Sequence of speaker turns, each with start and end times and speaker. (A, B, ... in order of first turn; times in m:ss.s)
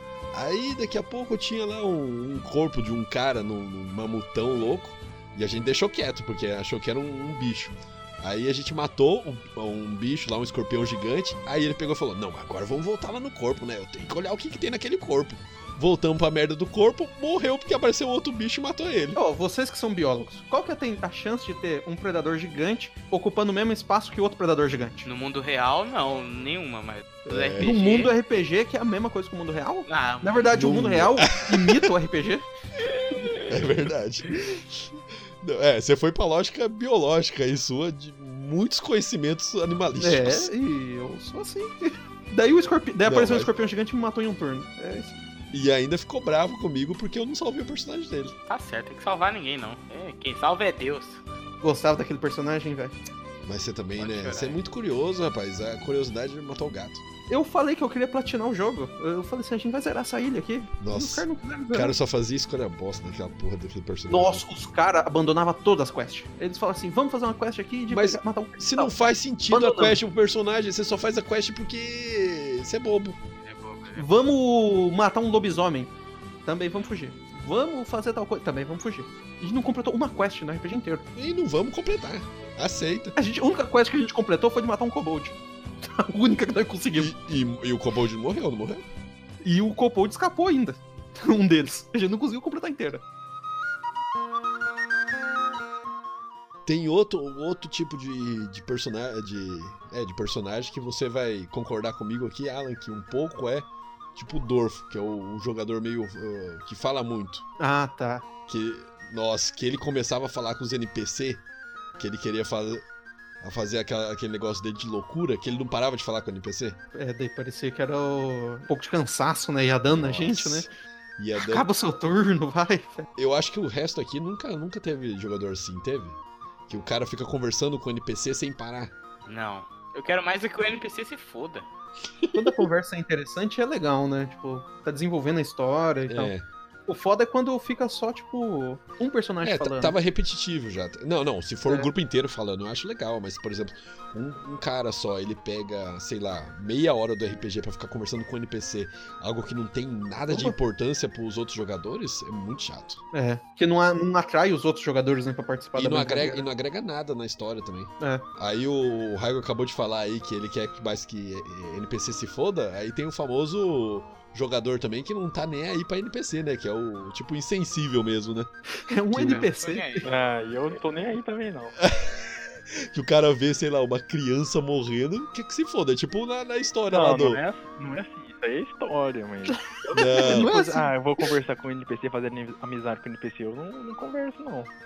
0:00.3-0:19.2 A
0:19.1-0:25.1 B
0:25.0-0:28.1 C
0:27.2-0:27.7 A
0:27.6-0:32.4 B
0:29.8-0:30.5 C
0:30.5-0:31.9 A
0:33.4-0:40.5 A
0:40.0-0:45.1 B
0:43.0-0:43.5 A
0:45.5-0:48.3 A
0:48.5-0:51.2 C
0:51.6-0:52.9 B
0:53.4-0:57.0 A
0:54.0-0:54.6 C
0:57.3-1:02.0 B
1:00.8-1:04.4 A
1:04.1-1:08.9 B
1:07.9-1:13.2 A
1:09.5-1:10.0 B
1:13.4-1:14.1 C
1:14.0-1:15.9 B
1:16.4-1:21.0 B
1:21.2-1:23.2 A
1:23.2-1:25.4 B
1:25.9-1:27.1 B
1:27.0-1:28.8 A
1:29.4-1:33.0 B
1:36.6-1:47.4 A
1:47.6-1:48.2 B
1:48.5-1:51.4 A
1:52.0-1:52.8 A
1:53.4-1:56.8 A
1:56.9-2:00.7 B
1:59.9-2:00.7 A
2:01.2-2:01.6 A
2:01.4-2:03.1 B
2:03.2-2:08.9 A
2:09.3-2:11.7 C
2:12.3-2:12.6 C
2:12.3-2:16.3 B
2:16.1-2:16.4 A
2:16.9-2:20.0 B
2:19.4-2:33.0 A
2:30.3-2:30.6 B
2:33.1-2:36.4 B
2:35.8-2:48.5 A
2:38.0-2:38.2 B
2:48.9-2:50.1 B
2:49.1-2:49.5 A
2:49.2-2:50.0 C
2:50.0-2:51.7 D
2:51.8-2:52.3 A
2:52.9-2:57.4 A
2:56.9-3:04.7 D
2:59.7-3:01.3 B
2:59.9-3:00.5 A